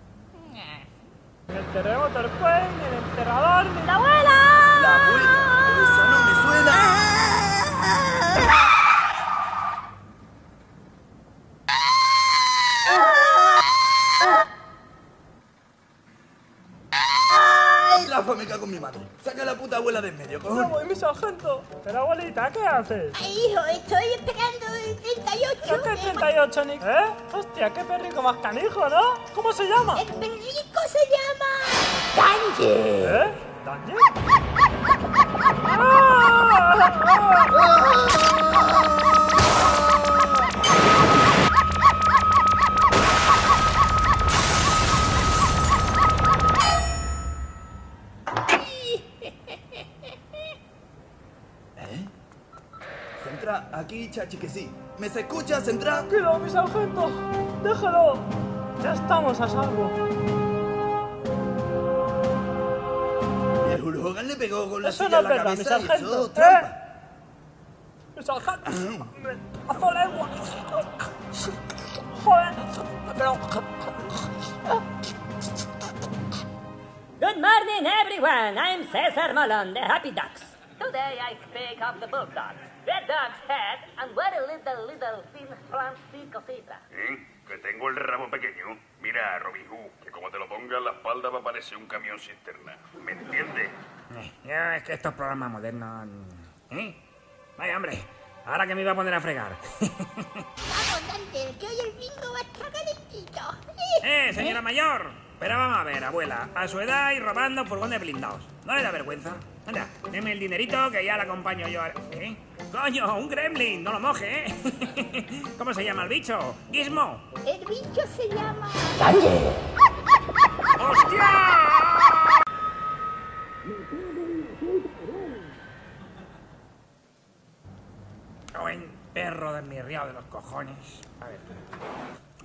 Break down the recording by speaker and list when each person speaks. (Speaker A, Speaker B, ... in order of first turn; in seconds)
Speaker A: 1.5-4.5, 20.4-23.1, 25.6-30.0, 33.0-34.1, 35.6-37.5, 56.1-58.2, 58.8-60.0, 64.8-66.7, 68.2-70.9, 72.2-73.8
Speaker B: 4.7-7.1, 17.6-20.8, 51.8-52.1, 53.2-56.1, 63.6-66.8, 68.7-69.0
Speaker C: 23.1-26.2, 29.9-33.2, 100.6-104.6, 117.4-119.5
Speaker D: 77.2-86.8
Speaker E: 86.9-93.7
Speaker F: 94.1-97.0, 97.6-100.4, 104.0-117.2, 120.8-122.3, 128.5-131.4